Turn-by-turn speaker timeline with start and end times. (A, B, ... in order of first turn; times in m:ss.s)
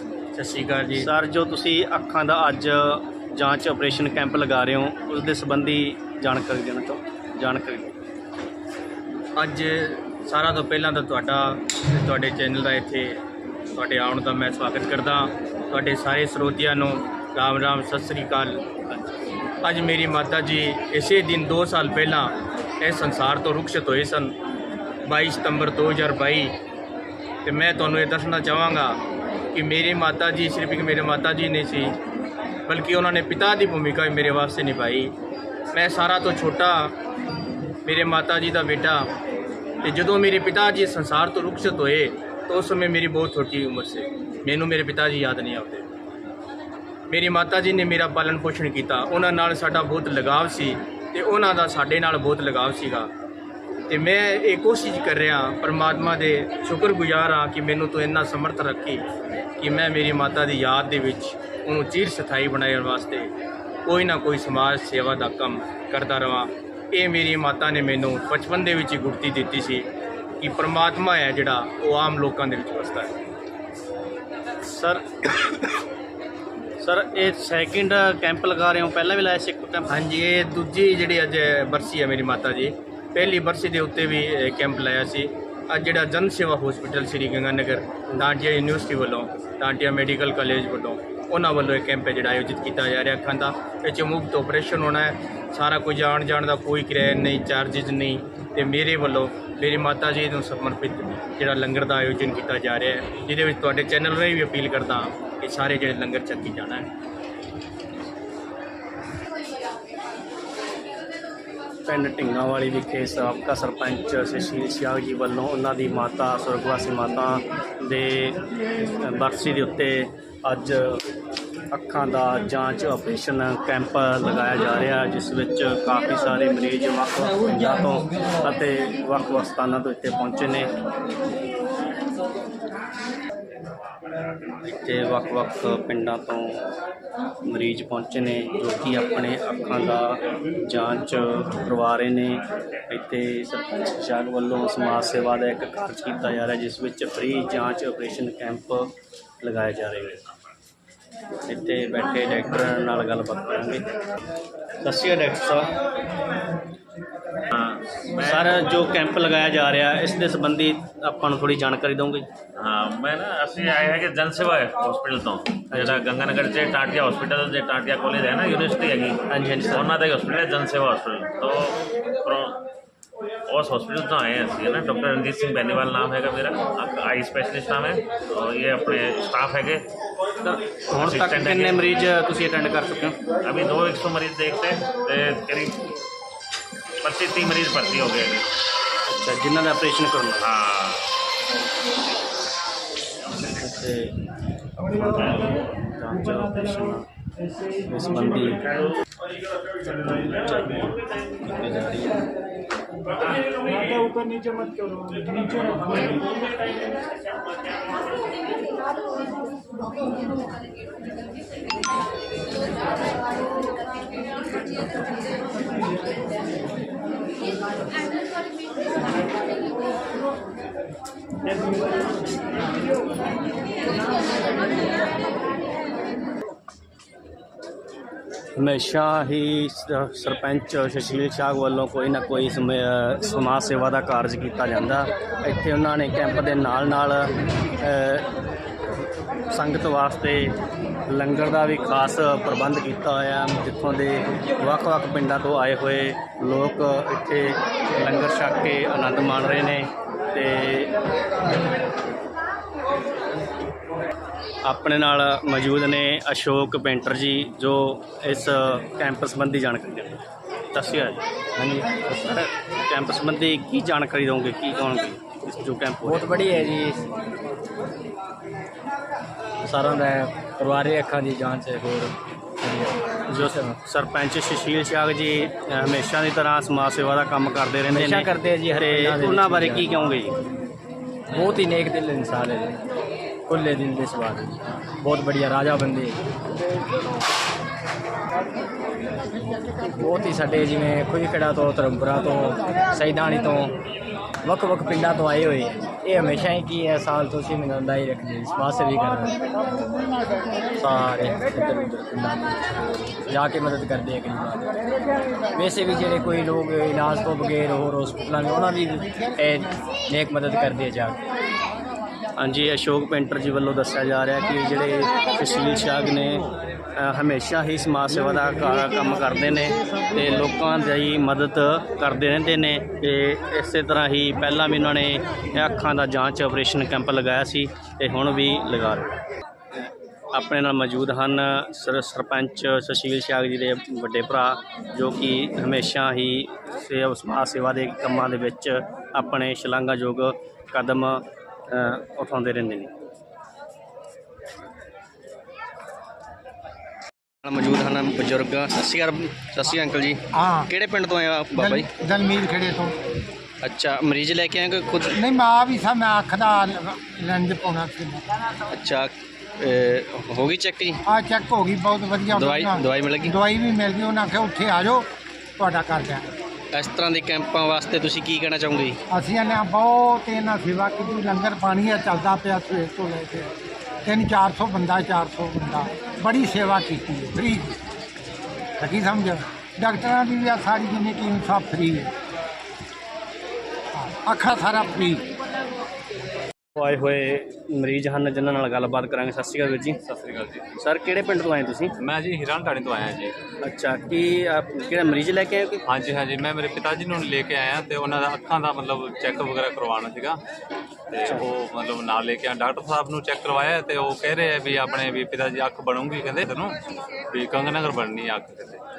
0:00.3-0:01.1 A
0:01.0-0:08.0 B
0:09.4-0:13.2 A
0:13.7-0:19.0 A
0:19.6-0:24.4 A
0:25.1-0:26.6 A
0:27.4-0:29.0 A
0:29.5-0:32.0 A
0:32.7-0:35.2 A
0:35.7-0:37.0 A
0:37.8-0:39.1 A
0:39.8-0:45.9 A
0:47.1-0:53.1 A
0:53.9-0:59.0 A
0:59.6-1:03.3 A
1:03.9-1:09.9 A
1:10.4-1:13.2 A
1:14.7-1:15.5 B
1:16.8-1:20.0 B
1:19.9-1:46.9 A
1:51.9-1:58.4 B
1:59.0-2:01.0 B
2:01.7-2:10.7 B
2:14.6-2:16.7 B
2:17.5-2:30.3 B
2:31.5-2:33.9 B
2:34.8-2:35.7 B
2:37.5-2:38.6 C
2:38.2-2:42.3 B
2:42.6-2:52.6 C
2:45.7-2:46.1 B
2:49.3-2:49.9 B
2:53.5-2:59.8 C
3:00.4-3:03.2 B
3:00.9-3:01.8 C
3:03.4-3:05.8 C
3:07.0-3:08.5 C
3:09.1-3:10.5 B
3:10.4-3:11.1 C
3:13.4-3:14.2 B
3:14.8-3:17.1 B
3:17.8-3:18.7 B
3:20.0-3:22.2 B
3:48.6-3:58.3 B
3:59.5-4:00.6 B
4:01.1-4:10.9 B
4:14.6-4:21.2 B
4:21.6-4:22.4 D
4:22.3-4:26.4 B
4:26.0-4:27.0 D
4:29.6-4:33.8 D
4:33.3-4:40.3 B
4:37.9-4:40.0 D
4:41.3-4:42.8 D
4:43.5-4:46.2 D
4:49.9-4:53.8 D
4:54.4-4:59.4 D
5:00.8-5:04.7 D
5:05.5-5:11.2 D
5:12.4-5:16.4 B
5:17.0-5:29.2 B
5:29.8-5:42.9 B
5:47.4-5:51.9 B
5:50.3-5:50.7 E
5:51.6-5:53.0 E
5:53.6-5:55.2 B
5:55.1-5:58.2 E
5:58.7-6:01.0 B
6:01.1-6:06.3 E
6:02.3-6:03.3 B
6:06.7-6:09.0 B
6:09.1-6:13.5 E
6:14.0-6:17.8 E
6:18.8-6:22.1 E
6:24.0-6:25.2 E
6:26.8-6:30.0 B
6:30.1-6:30.6 F
6:30.8-6:31.9 B
6:32.0-6:33.3 F
6:33.6-6:35.8 B
6:35.9-6:40.4 F
6:41.1-6:46.7 F
6:47.3-6:48.8 F